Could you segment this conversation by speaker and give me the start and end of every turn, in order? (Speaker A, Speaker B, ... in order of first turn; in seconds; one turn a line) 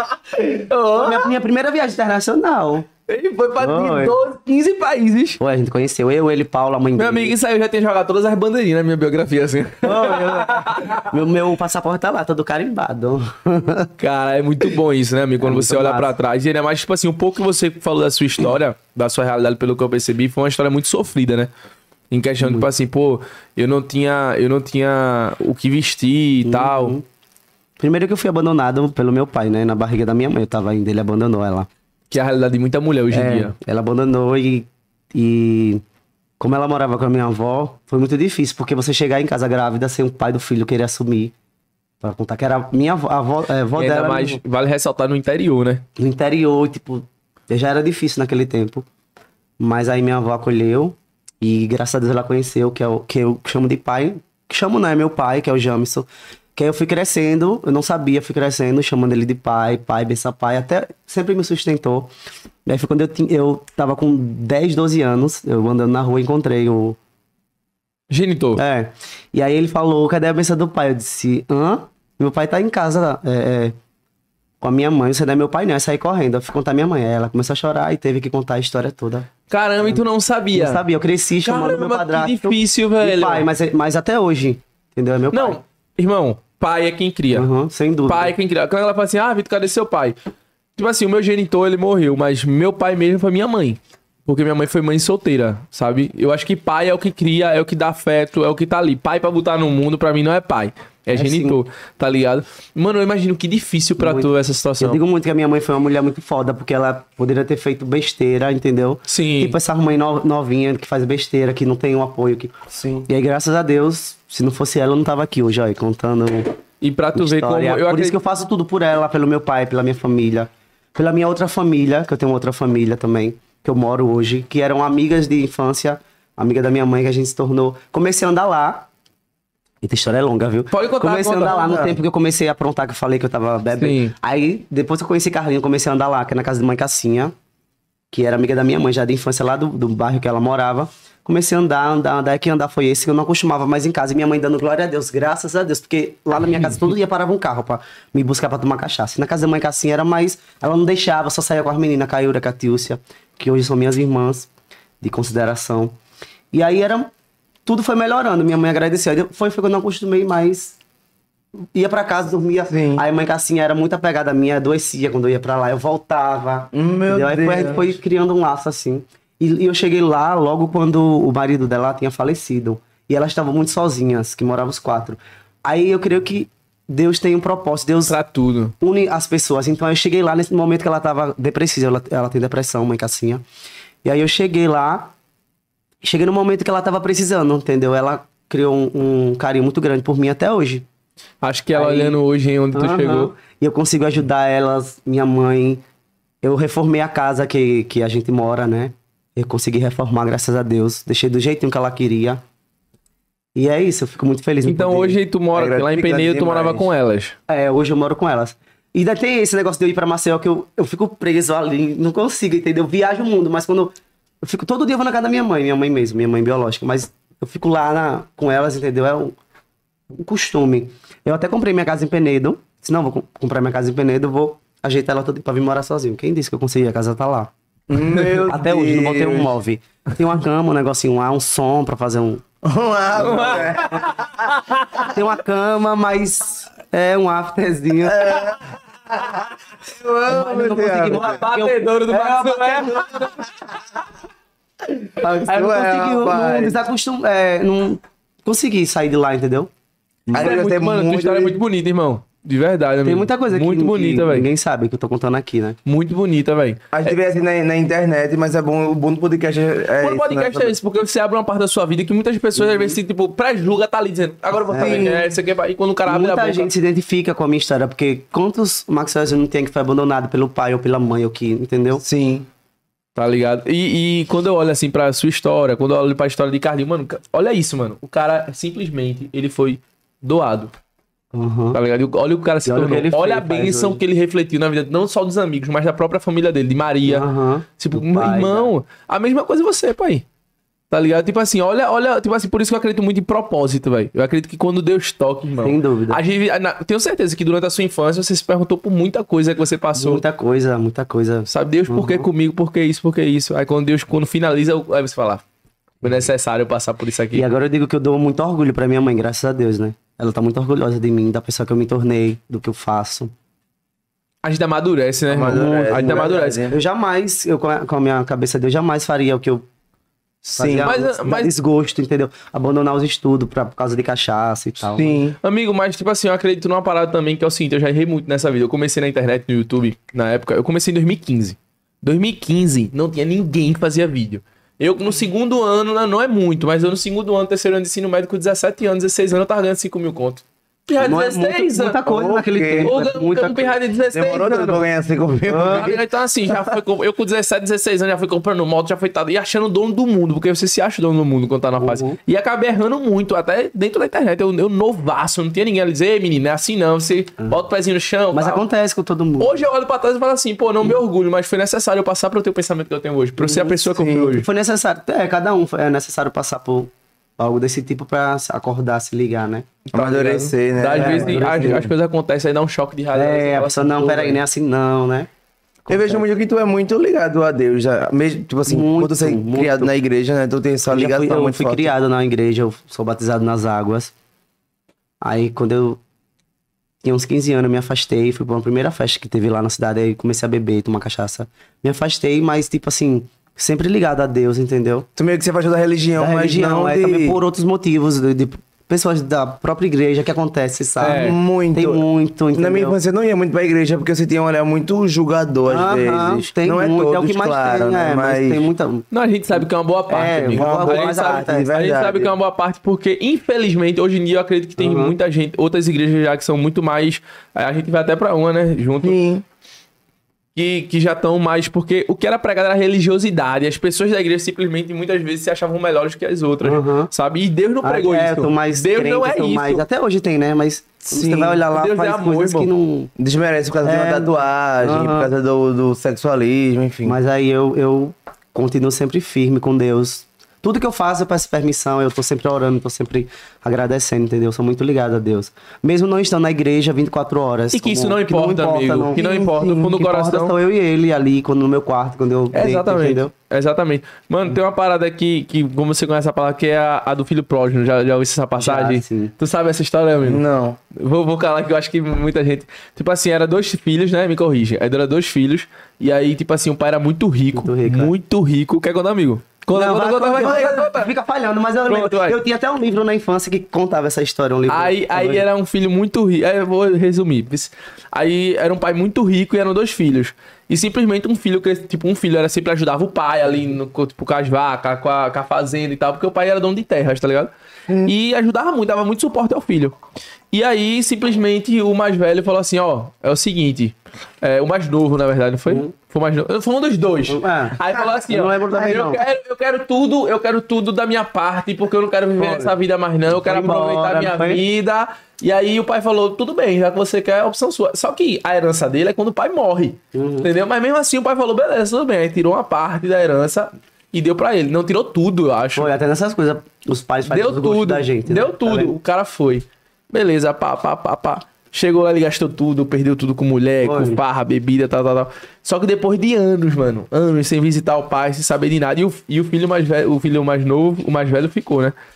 Speaker A: 0.4-1.3
Speaker B: 0.9-2.9
Speaker A: 3.1-5.4
Speaker B: 3.6-4.2
Speaker B: 5.4-7.3
Speaker A: 7.0-11.1
Speaker B: 9.8-13.9
Speaker A: 14.0-21.5
Speaker B: 15.4-16.1
Speaker A: 22.1-27.0
Speaker B: 22.4-22.7
Speaker B: 26.4-27.0
Speaker B: 27.8-31.7
Speaker A: 32.1-33.5
Speaker B: 33.1-35.8
Speaker B: 36.4-41.3
Speaker B: 42.0-44.4
Speaker A: 43.8-45.9
Speaker B: 46.0-48.9
Speaker B: 49.6-62.1
Speaker B: 62.7-67.0
Speaker A: 68.1-68.6
Speaker B: 68.6-73.8
Speaker B: 74.6-79.3
Speaker A: 79.5-80.8
Speaker B: 79.8-85.6
Speaker A: 81.4-83.5
Speaker A: 85.3-87.5
Speaker B: 87.3-88.3
Speaker A: 88.1-90.2
Speaker A: 90.8-105.0
Speaker B: 101.1-101.6
Speaker B: 104.0-112.5
Speaker A: 109.1-109.6
Speaker C: 112.7-113.1
Speaker B: 113.1-116.5
Speaker A: 116.8-118.2
Speaker B: 117.2-128.9
Speaker B: 129.8-137.3
Speaker A: 130.7-131.9
Speaker A: 133.8-134.1
Speaker B: 138.1-154.5
Speaker B: 155.0-155.9
Speaker B: 156.5-157.1
Speaker B: 157.7-160.8
Speaker B: 161.7-178.2
Speaker C: 162.7-163.0
Speaker C: 166.7-168.0
Speaker A: 178.1-178.7
Speaker B: 178.8-183.4
Speaker B: 184.0-185.1
Speaker B: 186.0-190.9
Speaker A: 191.4-193.3
Speaker B: 191.7-192.2
Speaker B: 192.7-195.8
Speaker B: 196.4-202.4
Speaker B: 203.6-205.2
Speaker A: 204.7-207.4
Speaker C: 205.6-206.9
Speaker B: 207.5-219.4
Speaker B: 220.1-227.5
Speaker C: 227.9-229.5
Speaker B: 228.4-232.4
Speaker C: 232.6-234.5
Speaker A: 233.2-235.1
Speaker B: 233.3-233.6
Speaker B: 235.0-238.3
Speaker C: 238.1-241.4
Speaker B: 240.3-243.3
Speaker A: 241.1-243.5
Speaker C: 244.9-246.8
Speaker B: 245.2-249.7
Speaker C: 250.3-251.6
Speaker A: 250.3-254.5
Speaker B: 253.1-255.8
Speaker A: 255.9-257.1
Speaker C: 256.9-260.8
Speaker A: 260.0-266.7
Speaker B: 262.6-263.0
Speaker C: 264.7-265.2
Speaker B: 264.7-265.2
Speaker B: 266.1-272.0
Speaker C: 272.0-272.5
Speaker A: 273.2-280.7
Speaker B: 281.3-281.8
Speaker A: 281.7-287.3
Speaker B: 282.7-284.0
Speaker B: 287.1-288.7
Speaker A: 287.8-290.2
Speaker A: 290.9-300.2
Speaker B: 295.6-296.2
Speaker B: 299.9-302.3
Speaker A: 301.5-305.4
Speaker A: 306.0-307.4
Speaker B: 307.3-313.3
Speaker A: 314.4-316.6
Speaker C: 315.3-316.8
Speaker B: 315.5-319.7
Speaker C: 320.4-320.9
Speaker B: 320.5-325.2
Speaker A: 320.8-321.5
Speaker C: 324.9-325.4
Speaker A: 325.4-342.0
Speaker B: 341.0-343.8
Speaker C: 342.1-342.9
Speaker A: 342.8-344.8
Speaker C: 344.1-346.0
Speaker B: 345.5-346.0
Speaker A: 345.7-358.6
Speaker B: 351.8-352.2
Speaker B: 358.3-359.6
Speaker A: 359.4-364.5
Speaker B: 363.4-363.8
Speaker C: 363.9-364.4
Speaker B: 364.4-369.7
Speaker C: 369.9-371.9
Speaker A: 369.9-374.4
Speaker B: 370.9-371.9
Speaker B: 373.1-375.3
Speaker B: 375.9-376.2
Speaker C: 375.9-381.9
Speaker B: 378.7-379.9
Speaker B: 380.9-384.1
Speaker B: 385.2-386.0
Speaker B: 387.0-395.1
Speaker C: 395.2-397.4
Speaker B: 396.2-403.0
Speaker A: 401.0-401.4
Speaker C: 401.0-408.7
Speaker B: 405.7-411.7
Speaker A: 409.1-419.2
Speaker C: 410.6-412.3
Speaker B: 414.8-415.1
Speaker C: 419.0-419.4
Speaker A: 420.6-429.9
Speaker B: 426.6-427.1
Speaker B: 427.8-433.1
Speaker C: 431.1-431.6
Speaker A: 431.7-432.7
Speaker C: 433.2-437.2
Speaker B: 433.8-435.3
Speaker B: 437.1-453.3
Speaker A: 447.7-450.5
Speaker A: 452.5-460.4
Speaker B: 458.6-459.3
Speaker C: 460.2-460.8
Speaker A: 460.9-471.1
Speaker B: 467.5-468.1
Speaker B: 469.7-475.4
Speaker A: 471.9-472.4
Speaker A: 474.7-487.5
Speaker A: 488.0-490.0
Speaker A: 490.5-515.9
Speaker B: 495.7-495.9
Speaker B: 497.3-499.2
Speaker B: 502.4-502.7
Speaker B: 503.3-504.6
Speaker B: 510.1-510.5
Speaker B: 515.8-519.0
Speaker A: 517.3-532.0
Speaker B: 523.8-524.2